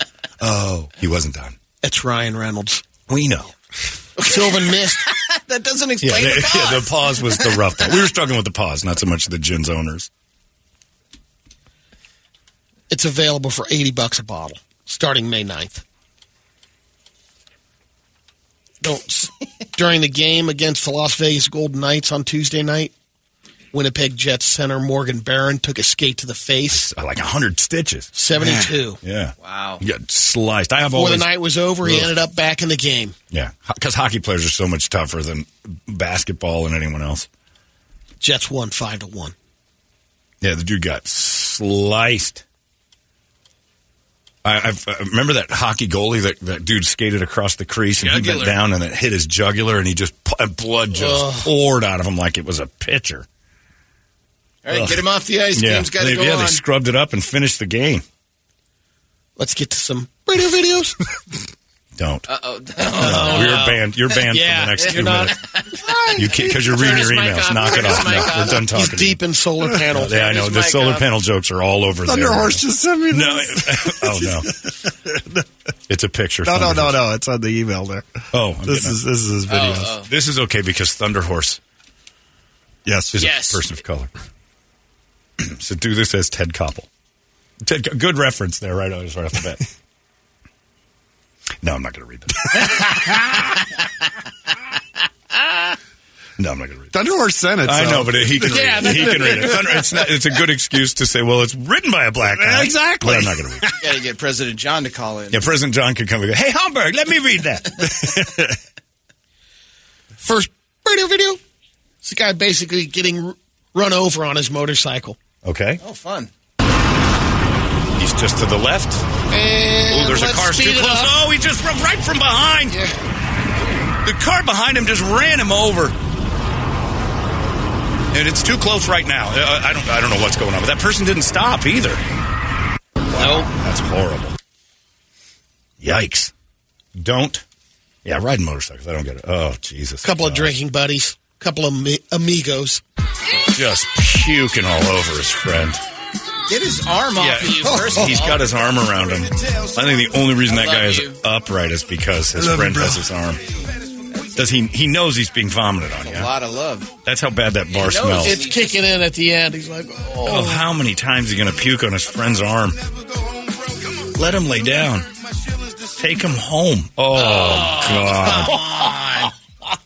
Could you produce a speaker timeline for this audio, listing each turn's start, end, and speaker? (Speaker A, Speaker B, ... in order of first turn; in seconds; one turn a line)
Speaker A: 0.4-1.6
Speaker B: 1.8-2.8
Speaker A: 3.1-3.5
Speaker C: 4.2-7.6
Speaker B: 4.2-5.0
Speaker A: 6.0-10.1
Speaker B: 12.9-15.8
Speaker B: 18.8-22.9
Speaker B: 23.7-26.8
Speaker A: 26.7-28.1
Speaker B: 28.1-29.0
Speaker D: 28.4-28.7
Speaker A: 29.0-31.3
Speaker C: 29.4-29.8
Speaker B: 30.9-33.2
Speaker A: 31.8-32.1
Speaker A: 33.3-37.3
Speaker B: 38.2-39.3
Speaker A: 40.4-42.4
Speaker A: 44.4-53.3
Speaker C: 48.0-48.6
Speaker B: 51.0-51.5
Speaker C: 54.6-56.6
Speaker A: 54.7-55.0
Speaker A: 55.5-58.0
Speaker B: 59.4-61.0
Speaker A: 62.0-62.3
Speaker C: 62.3-63.9
Speaker B: 63.0-70.4
Speaker A: 63.0-65.4
Speaker C: 64.8-66.1
Speaker A: 66.1-69.2
Speaker C: 66.7-68.7
Speaker A: 69.9-74.5
Speaker C: 70.1-71.0
Speaker D: 72.0-75.5
Speaker A: 75.9-77.0
Speaker D: 76.4-80.1
Speaker A: 78.3-79.0
Speaker C: 79.5-80.1
Speaker A: 80.1-81.6
Speaker D: 82.8-83.2
Speaker A: 83.1-84.1
Speaker C: 83.2-83.6
Speaker A: 85.4-86.9
Speaker A: 87.6-89.7
Speaker A: 91.6-92.9
Speaker A: 96.4-97.0
Speaker D: 96.9-99.6
Speaker A: 97.6-103.7
Speaker C: 98.4-99.9
Speaker D: 102.3-103.8
Speaker C: 103.7-105.4
Speaker A: 105.3-108.1
Speaker D: 107.9-108.6
Speaker B: 110.2-111.4
Speaker B: 112.0-115.2
Speaker A: 115.5-115.8
Speaker C: 115.8-116.3
Speaker A: 118.0-119.1
Speaker B: 119.3-121.1
Speaker A: 119.9-122.8
Speaker A: 124.0-126.0
Speaker A: 128.1-132.0
Speaker A: 133.1-134.4
Speaker B: 133.2-133.4
Speaker A: 135.8-136.3
Speaker A: 137.0-137.4
Speaker A: 138.1-140.6
Speaker B: 140.0-142.8
Speaker A: 143.5-145.8
Speaker C: 146.5-148.5
Speaker A: 147.2-153.4
Speaker D: 147.7-148.1
Speaker C: 150.5-151.2
Speaker D: 152.4-153.1
Speaker A: 154.3-156.3
Speaker C: 156.0-156.9
Speaker A: 157.1-158.4
Speaker C: 157.7-158.9
Speaker B: 158.2-160.6
Speaker A: 160.2-162.8
Speaker A: 164.1-165.1
Speaker A: 166.0-168.6
Speaker C: 167.2-169.3
Speaker B: 168.2-168.9